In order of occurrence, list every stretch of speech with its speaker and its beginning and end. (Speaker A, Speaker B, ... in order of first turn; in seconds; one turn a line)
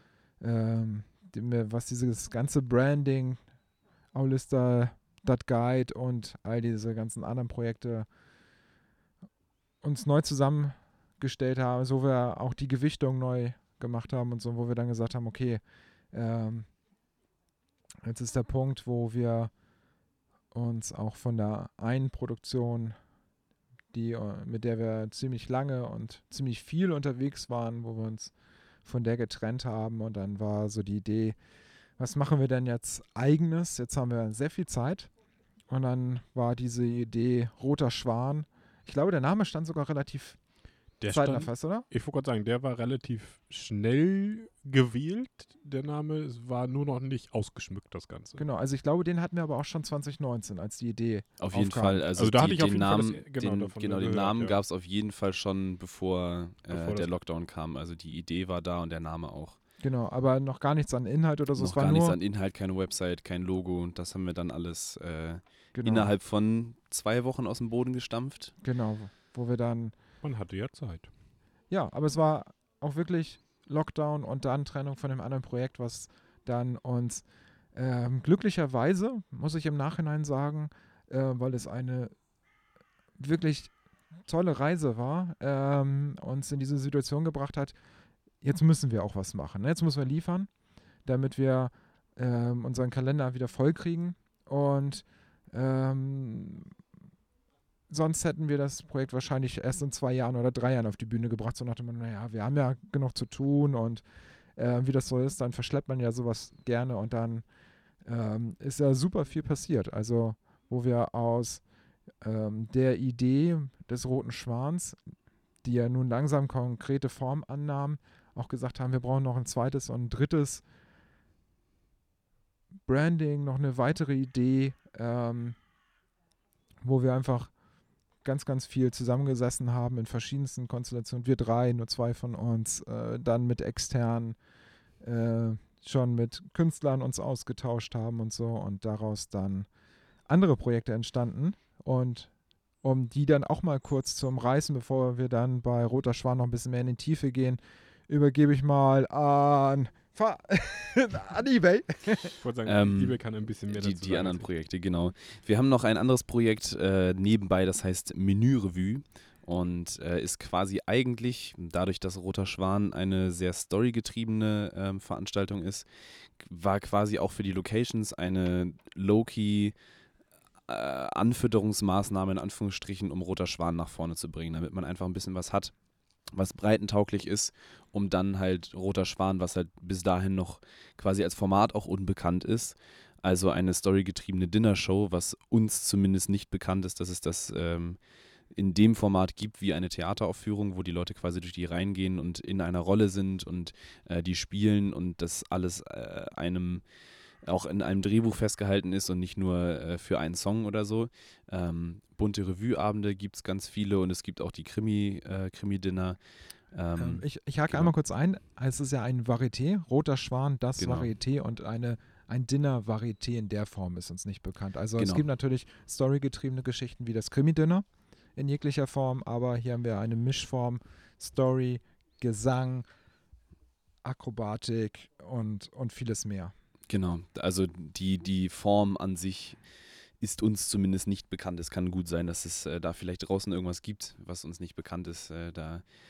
Speaker A: 0.4-3.4
Speaker A: 4.1-8.1
Speaker A: 9.8-15.6
Speaker A: 16.1-16.7
Speaker A: 18.0-19.5
Speaker A: 20.5-22.9
Speaker A: 23.9-28.3
Speaker A: 28.8-31.4
Speaker A: 32.0-35.1
Speaker A: 35.7-40.4
Speaker B: 41.0-48.4
Speaker A: 41.1-41.9
Speaker A: 48.4-52.0
Speaker C: 51.4-59.6
Speaker B: 52.2-54.6
Speaker B: 56.7-57.1
Speaker A: 59.8-62.2
Speaker C: 61.5-68.5
Speaker A: 65.7-66.1
Speaker A: 68.6-69.9
Speaker B: 70.2-71.1
Speaker A: 71.7-77.2
Speaker A: 77.7-82.1
Speaker A: 83.2-83.7
Speaker A: 84.3-87.7
Speaker A: 88.4-90.5
Speaker A: 91.0-96.7
Speaker A: 97.9-104.0
Speaker A: 104.5-107.4
Speaker A: 108.0-111.6
Speaker A: 112.2-115.0
Speaker A: 115.6-120.6
Speaker A: 122.9-125.6
Speaker A: 126.8-127.5
Speaker A: 128.2-134.4
Speaker A: 135.0-139.7
Speaker A: 140.3-142.3
Speaker A: 142.8-152.4
Speaker B: 152.4-154.5
Speaker C: 152.6-165.9
Speaker C: 166.4-169.8
Speaker C: 170.7-175.7
Speaker C: 176.3-188.0
Speaker C: 188.5-196.8
Speaker C: 197.4-206.2
Speaker C: 206.7-207.9
Speaker A: 207.0-217.8
Speaker C: 210.8-211.1
Speaker C: 215.0-215.2
Speaker A: 218.3-222.9
Speaker A: 224.0-226.5
Speaker C: 226.9-229.6
Speaker C: 230.2-235.8